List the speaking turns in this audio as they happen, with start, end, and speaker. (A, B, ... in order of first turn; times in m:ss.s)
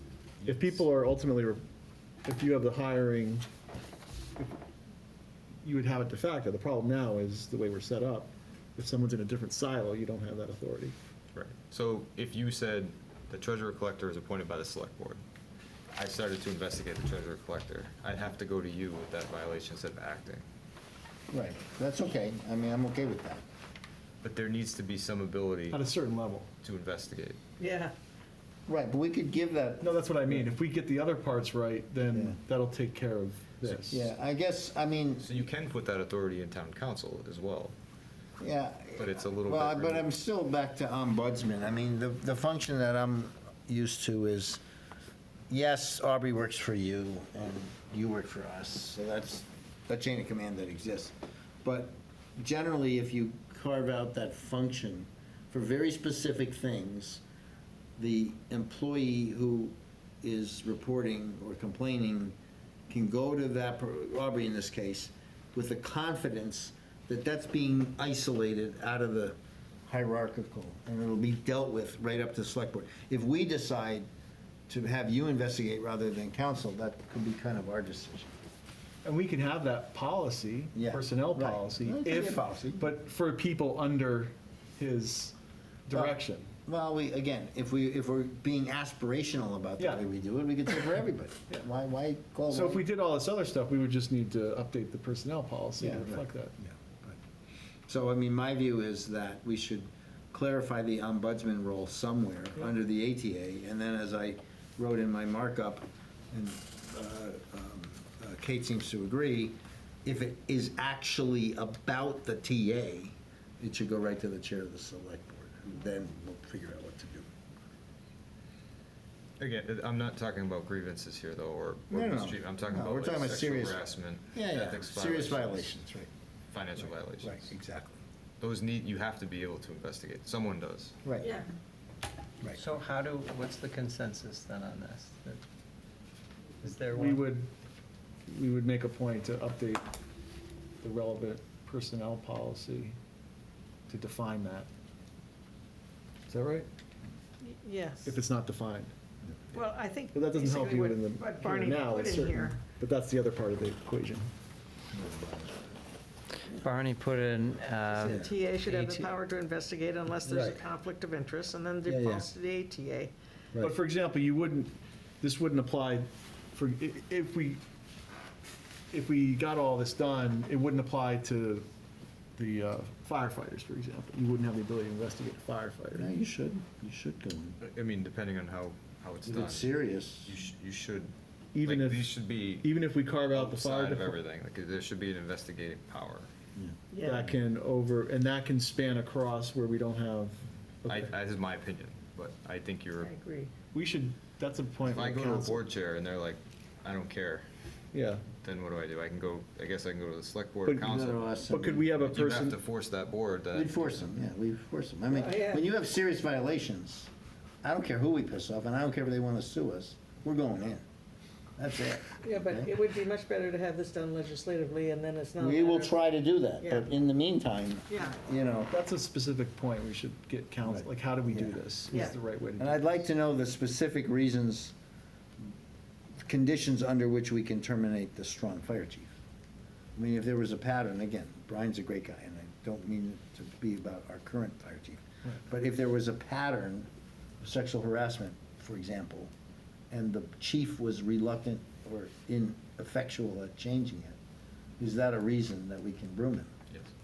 0:00.4-0:00.8 A
0:00.4-0:01.6 B
0:02.2-0:03.5 B
0:05.6-0:11.0 B
0:11.3-0:15.2 C
0:15.9-0:20.4 C
0:21.3-0:23.4 A
0:24.2-0:25.8 C
0:25.7-0:26.5 B
0:26.6-0:27.4 C
0:27.6-0:27.9 D
0:28.7-0:30.5 A
0:29.8-0:34.1 B
0:32.1-0:32.4 A
0:33.6-0:35.3 A
0:35.2-0:37.8 C
0:38.4-0:44.6 A
0:39.0-0:40.1 C
0:45.5-0:57.2 A
0:58.0-1:02.4 A
1:02.9-1:09.4 A
1:09.9-1:14.1 A
1:14.7-1:18.3 A
1:19.0-1:25.3 B
1:20.8-1:22.9 A
1:25.9-1:26.5 B
1:25.9-1:32.9 A
1:29.8-1:30.0 B
1:32.5-1:36.6 B
1:35.8-1:37.2 A
1:37.9-1:57.3 A
1:59.4-2:05.7 C
2:01.9-2:03.8 A
2:04.3-2:06.1 A
2:06.5-2:07.5 C
2:06.8-2:08.0 A
2:08.4-2:10.9 C
2:11.0-2:11.3 A
2:11.2-2:11.5 D
2:12.6-2:15.4 E
2:16.6-2:17.3 E
2:16.9-2:17.5 B
2:18.3-2:19.8 B
2:20.8-2:23.0 B
2:23.9-2:24.7 B
2:26.3-2:26.7 B
2:27.4-2:28.2 D
2:28.0-2:28.9 B
2:29.5-2:32.6 D
2:30.1-2:34.3 B
2:34.9-2:35.6 A
2:36.6-2:39.1 E
2:38.0-2:43.1 D
2:38.1-2:38.3 A
2:40.2-2:40.6 A
2:41.8-2:42.3 A
2:43.6-2:47.6 B
2:48.9-2:51.7 B
2:52.4-2:56.1 B
2:55.9-2:57.6 A
2:57.6-3:06.3 C
2:59.2-3:00.3 A
3:01.5-3:04.2 B
3:06.9-3:07.3 D
3:07.0-3:11.1 B
3:10.8-3:13.1 C
3:13.0-3:13.5 D
3:13.7-3:15.6 B
3:14.8-3:17.5 C
3:17.9-3:18.2 B
3:18.4-3:21.3 C
3:20.7-3:22.6 B
3:20.8-3:21.9 A
3:22.0-3:24.0 C
3:23.5-3:27.1 A
3:25.1-3:25.6 D
3:27.6-3:30.8 A
3:31.6-3:32.7 A
3:32.2-3:36.0 D
3:35.4-3:38.7 A
3:36.6-3:36.9 D
3:37.9-3:38.2 D
3:38.7-3:43.1 B
3:40.6-3:44.7 A
3:46.2-3:49.1 A
3:50.0-3:56.9 A
3:57.4-3:59.3 A
3:59.9-4:04.2 A
4:04.8-4:06.5 A